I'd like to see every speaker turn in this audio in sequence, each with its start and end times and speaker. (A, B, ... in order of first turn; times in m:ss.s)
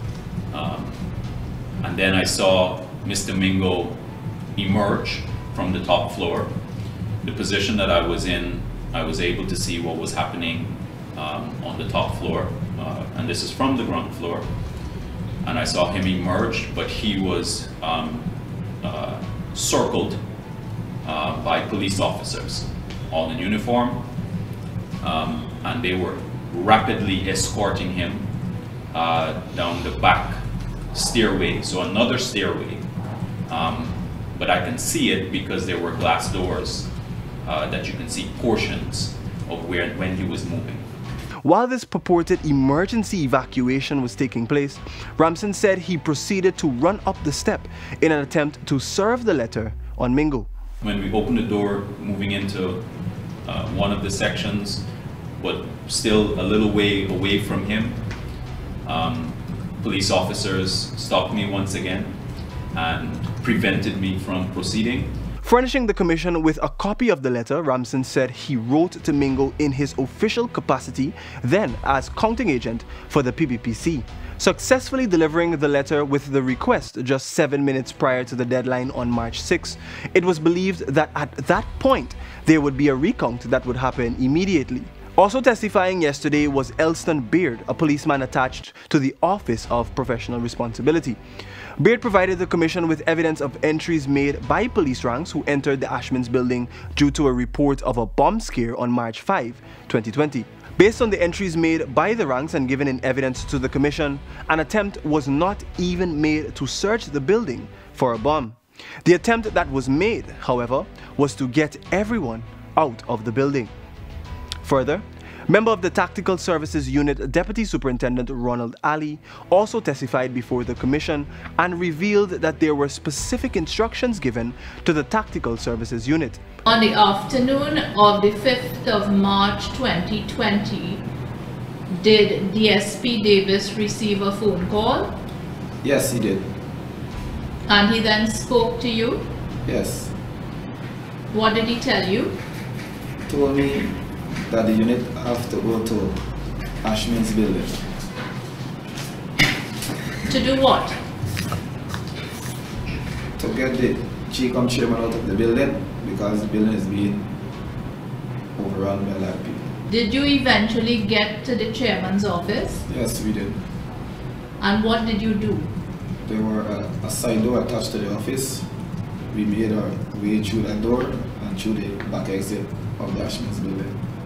0:00.5-0:01.0 A
0:01.8-0:04.0 A
0:04.5-0:06.5 A
0:07.2-0:14.5 A
0:15.4-0:18.3 A
0:18.8-0:20.2 A
0:21.0-0:24.1 A
0:25.0-0:28.3 A
0:28.9-0:30.4 A
0:30.9-0:32.9 A
0:33.5-0:36.9 A
0:37.4-0:40.8 A
0:41.4-0:50.5 B
0:50.8-0:52.8 A
0:53.4-0:54.8 A
0:55.4-0:58.0 A
0:58.8-1:02.1 A
1:02.7-1:05.2 A
1:05.4-1:31.2 B
1:31.8-1:53.7 B
1:54.6-2:06.4 B
2:06.6-2:11.0 C
2:11.9-2:15.2 C
2:15.8-2:16.5 D
2:17.7-2:19.3 C
2:19.6-2:20.1 D
2:21.3-2:22.3 C
2:23.3-2:24.0 D
2:24.5-2:26.2 D
2:26.8-2:27.8 D
2:30.2-2:31.0 C
2:33.4-2:37.3 D
2:38.6-2:39.6 D
2:39.9-2:42.8 C
2:42.9-2:43.6 D
2:44.6-2:45.7 C
2:46.2-2:48.6 D
2:49.3-2:54.0 D